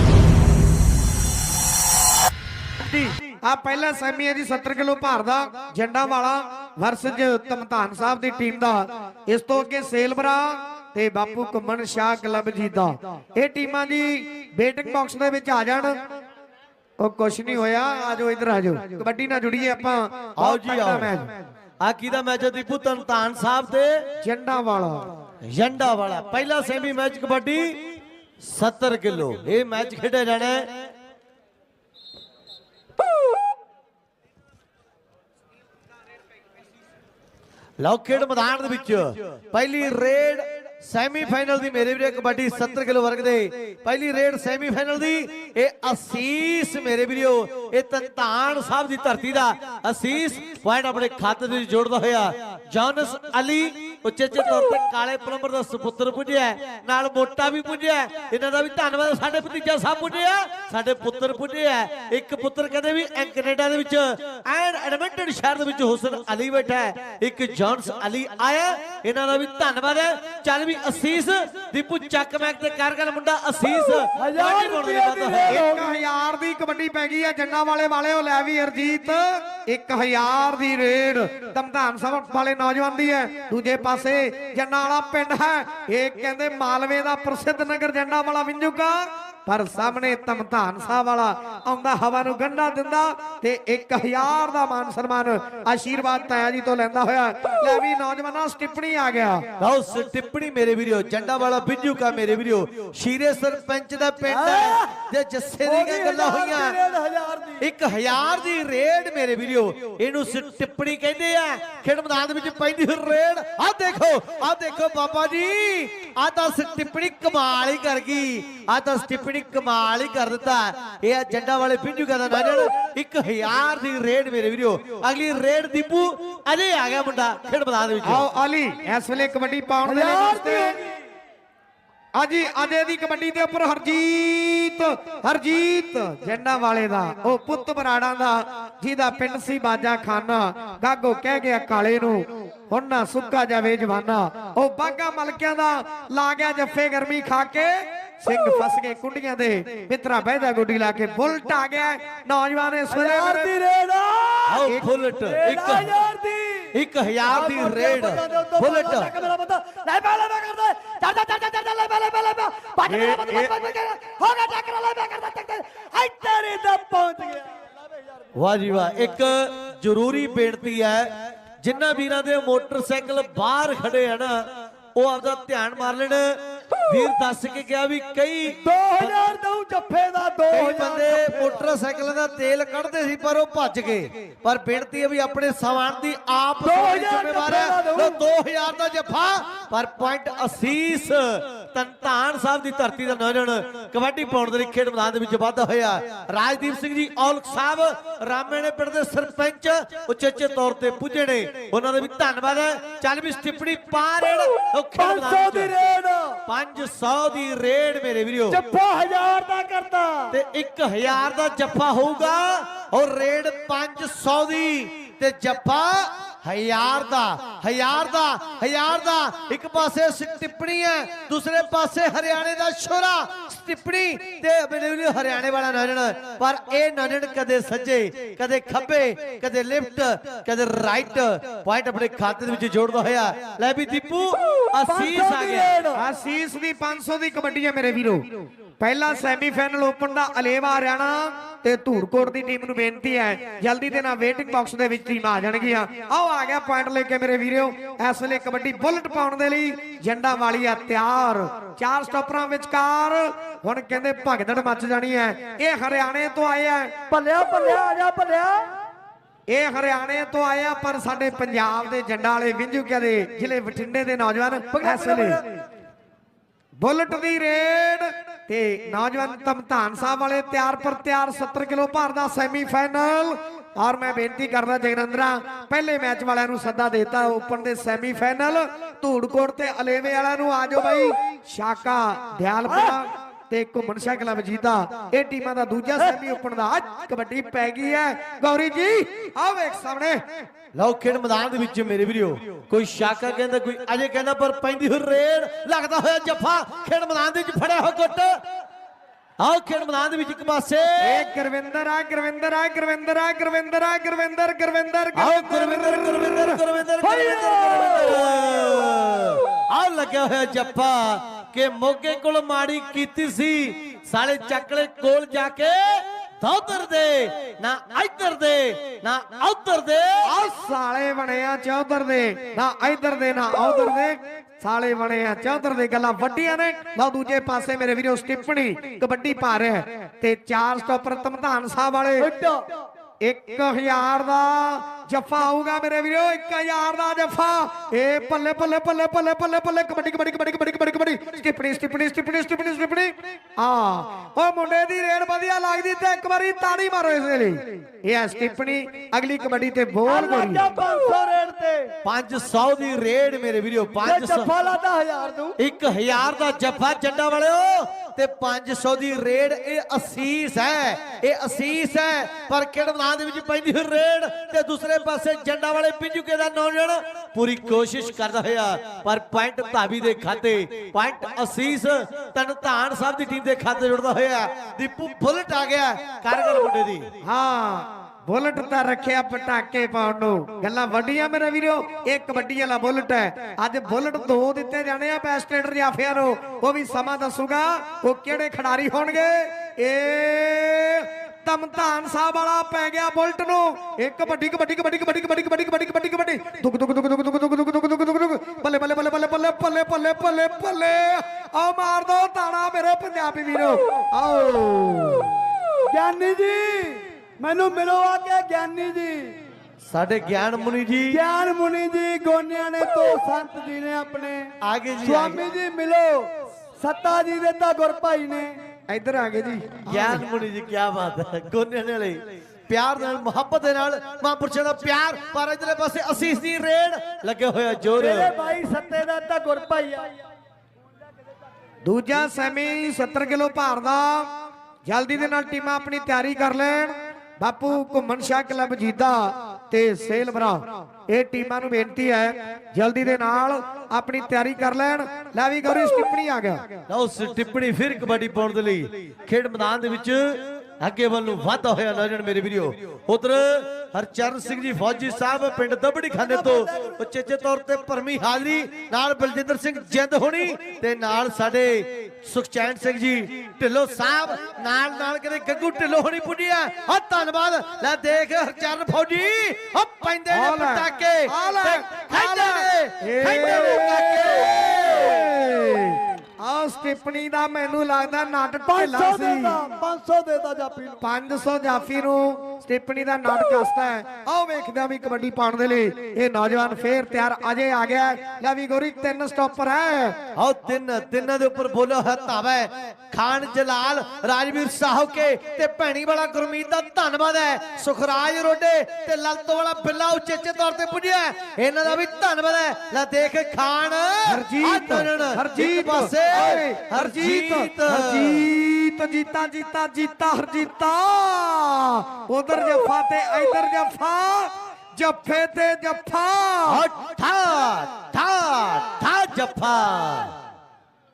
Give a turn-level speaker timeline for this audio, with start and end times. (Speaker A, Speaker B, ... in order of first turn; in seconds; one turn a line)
Speaker A: 2.9-16.0
Speaker A: 17.0-21.4
Speaker B: 20.4-21.1
Speaker B: 21.8-24.0
Speaker A: 24.2-25.1
Speaker B: 25.4-27.8
Speaker B: 28.4-30.7
Speaker B: 37.8-75.6
Speaker C: 74.2-75.9
Speaker A: 75.5-99.5
Speaker B: 99.6-106.8
Speaker C: 104.3-105.0
Speaker C: 105.6-107.6
Speaker B: 107.6-128.2
Speaker A: 128.0-130.8
Speaker C: 129.8-130.9
Speaker A: 132.2-153.5
Speaker C: 152.9-156.7
Speaker B: 154.5-155.9
Speaker B: 156.7-159.2
Speaker C: 157.3-167.5
Speaker B: 162.9-163.5
Speaker B: 168.3-179.2
Speaker C: 178.6-181.6
Speaker B: 180.5-205.7
Speaker C: 186.6-188.2
Speaker C: 205.0-206.4
Speaker B: 206.5-208.6
Speaker C: 208.5-210.3
Speaker B: 210.3-235.8
Speaker C: 234.8-236.0
Speaker A: 235.9-256.9
Speaker C: 257.1-258.6
Speaker A: 259.5-265.4
Speaker C: 264.7-265.5
Speaker A: 266.8-290.2
Speaker C: 282.7-283.0
Speaker B: 290.8-298.4
Speaker B: 299.4-301.3
Speaker A: 301.0-306.6
Speaker B: 305.1-320.3
Speaker C: 307.0-308.7
Speaker A: 320.2-332.3
Speaker C: 332.2-332.6
Speaker A: 333.2-350.8
Speaker C: 350.1-351.9
Speaker B: 352.0-354.5
Speaker C: 354.0-355.6
Speaker B: 355.6-377.1
Speaker A: 377.2-405.3
Speaker C: 405.9-409.4
Speaker B: 409.9-411.2
Speaker C: 411.1-414.5
Speaker B: 414.6-415.4
Speaker C: 415.0-418.5
Speaker A: 418.9-420.2
Speaker B: 419.9-428.3
Speaker C: 427.9-430.1
Speaker A: 431.8-434.3
Speaker A: 434.9-446.7
Speaker B: 446.9-475.1
Speaker A: 470.3-479.6
Speaker C: 473.2-475.3
Speaker C: 478.7-481.0
Speaker A: 481.0-490.2
Speaker B: 490.4-508.4
Speaker A: 504.3-516.8
Speaker B: 516.7-520.3